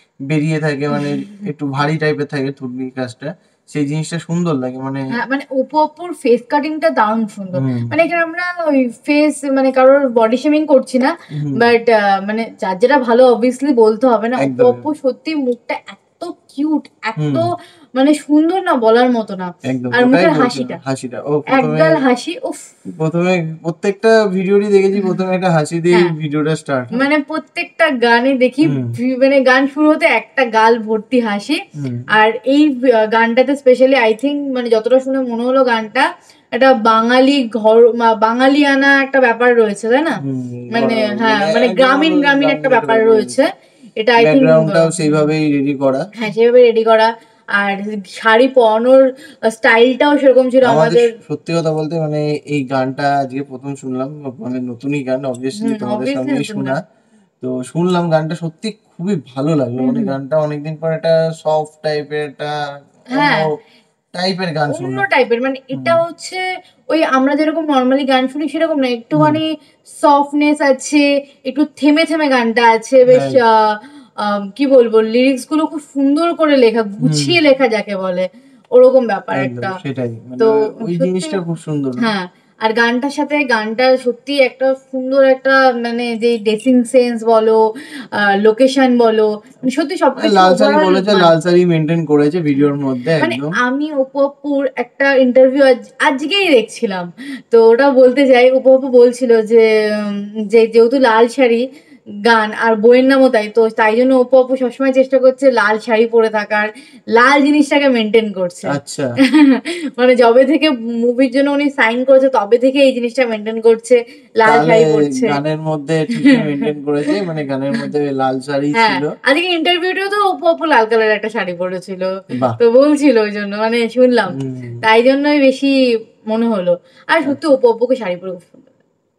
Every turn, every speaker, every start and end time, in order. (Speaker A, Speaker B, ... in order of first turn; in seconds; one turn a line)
Speaker A: 0.3-5.0
Speaker B: 1.0-1.4
Speaker B: 5.2-20.8
Speaker A: 7.5-7.9
Speaker A: 11.3-11.7
Speaker A: 14.4-14.9
Speaker A: 17.2-17.5
Speaker A: 19.7-22.0
Speaker B: 21.5-22.6
Speaker A: 23.0-27.1
Speaker B: 26.9-31.6
Speaker A: 28.6-28.9
Speaker A: 31.8-32.0
Speaker B: 32.1-40.2
Speaker A: 40.2-43.3
Speaker B: 40.7-45.2
Speaker A: 44.2-46.0
Speaker B: 46.1-51.1
Speaker A: 50.6-56.8
Speaker B: 55.6-56.8
Speaker A: 57.4-62.5
Speaker B: 59.8-60.1
Speaker A: 63.1-63.5
Speaker B: 63.2-63.5
Speaker A: 64.1-65.0
Speaker B: 64.7-79.7
Speaker A: 65.7-66.0
Speaker A: 69.2-69.4
Speaker A: 73.1-73.4
Speaker A: 77.0-77.3
Speaker A: 79.3-82.1
Speaker B: 80.4-81.4
Speaker B: 82.0-87.6
Speaker B: 88.1-91.3
Speaker A: 90.2-93.5
Speaker B: 93.2-101.7
Speaker B: 102.2-108.7
Speaker A: 108.7-109.1
Speaker B: 109.3-115.4
Speaker A: 114.5-119.1
Speaker B: 116.2-117.1
Speaker B: 118.8-125.7
Speaker A: 122.3-122.6
Speaker A: 124.3-124.8
Speaker B: 126.3-128.7